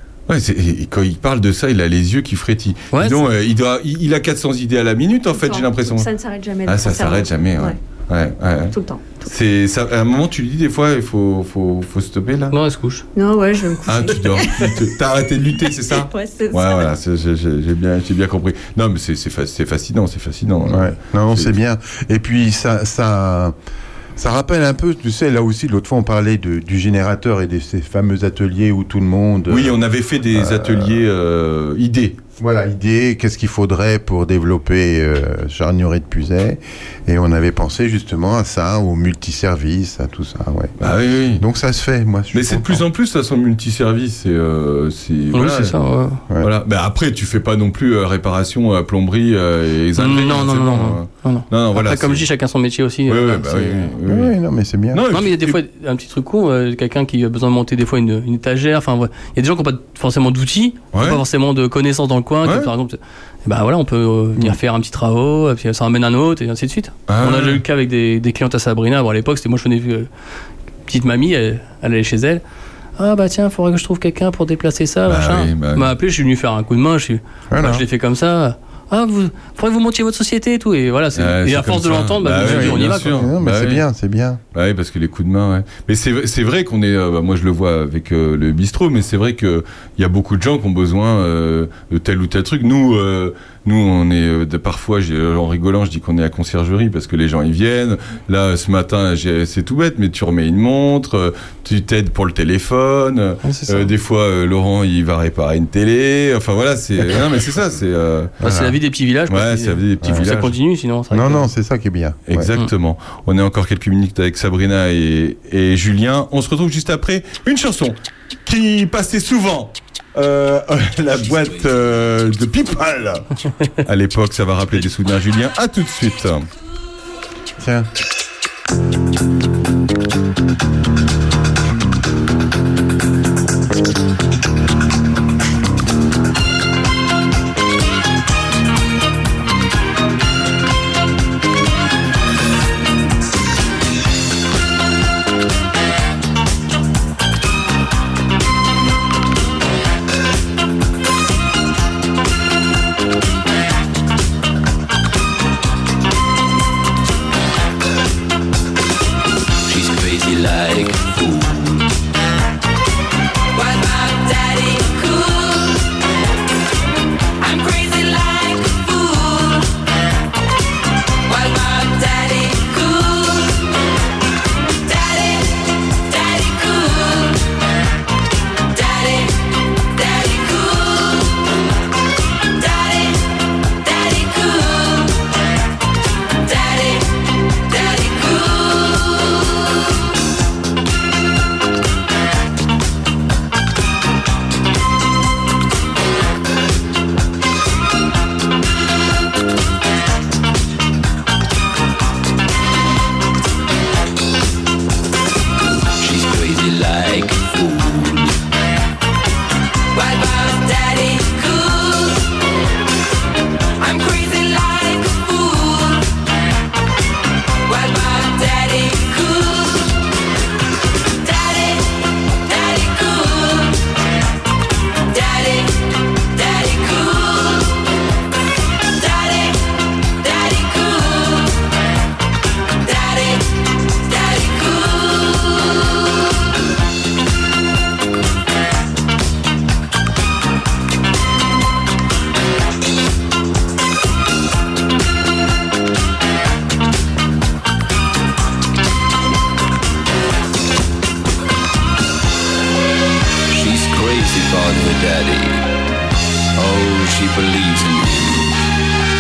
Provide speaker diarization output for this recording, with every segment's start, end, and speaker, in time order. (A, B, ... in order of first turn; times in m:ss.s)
0:00.3-0:06.1 A
0:02.9-0:03.3 B
0:05.3-0:07.8 C
0:06.6-0:12.5 A
0:08.7-0:09.3 C
0:12.5-0:13.0 B
0:13.1-0:14.9 C
0:13.9-0:21.5 A
0:15.6-0:16.9 C
0:20.7-0:23.6 D
0:24.2-0:31.0 D
0:29.5-0:32.2 A
0:32.4-0:40.8 D
0:40.8-0:41.4 A
0:41.4-0:42.8 D
0:42.3-0:45.8 A
0:45.3-0:46.2 B
0:46.4-0:52.2 A
0:50.0-0:53.9 B
0:53.1-0:54.4 A
0:54.0-0:55.0 D
0:54.9-0:55.6 A
0:55.1-1:10.1 B
1:00.9-1:01.2 A
1:02.4-1:02.7 A
1:07.1-1:07.6 A
1:10.9-1:12.4 B
1:13.0-1:23.2 B
1:15.1-1:15.9 A
1:17.5-1:17.8 D
1:21.2-1:23.8 A
1:22.4-1:24.4 D
1:24.5-1:48.4 A
1:43.4-1:43.9 B
1:48.4-1:48.8 D
1:48.4-1:51.5 B
1:49.3-1:50.5 A
1:51.1-1:52.5 D
1:52.3-2:03.2 A
2:03.8-2:06.5 A
2:07.6-2:07.9 D
2:39.7-2:41.9 E
2:43.5-2:45.8 F
2:47.4-2:49.7 F
2:51.3-2:53.7 F
2:54.8-2:57.4 F
2:58.7-3:01.4 F
3:02.5-3:03.3 F
3:03.8-3:05.3 F
3:06.4-3:09.4 F
3:26.0-3:28.4 E
3:29.9-3:32.2 F
3:33.8-3:36.1 F
3:37.7-3:40.0 F
3:41.2-3:43.8 F
3:45.1-3:47.8 F
3:48.9-3:49.7 F
3:50.2-3:51.7 F
3:52.8-3:55.8 F
4:13.5-4:15.6 E
4:16.6-4:18.6 E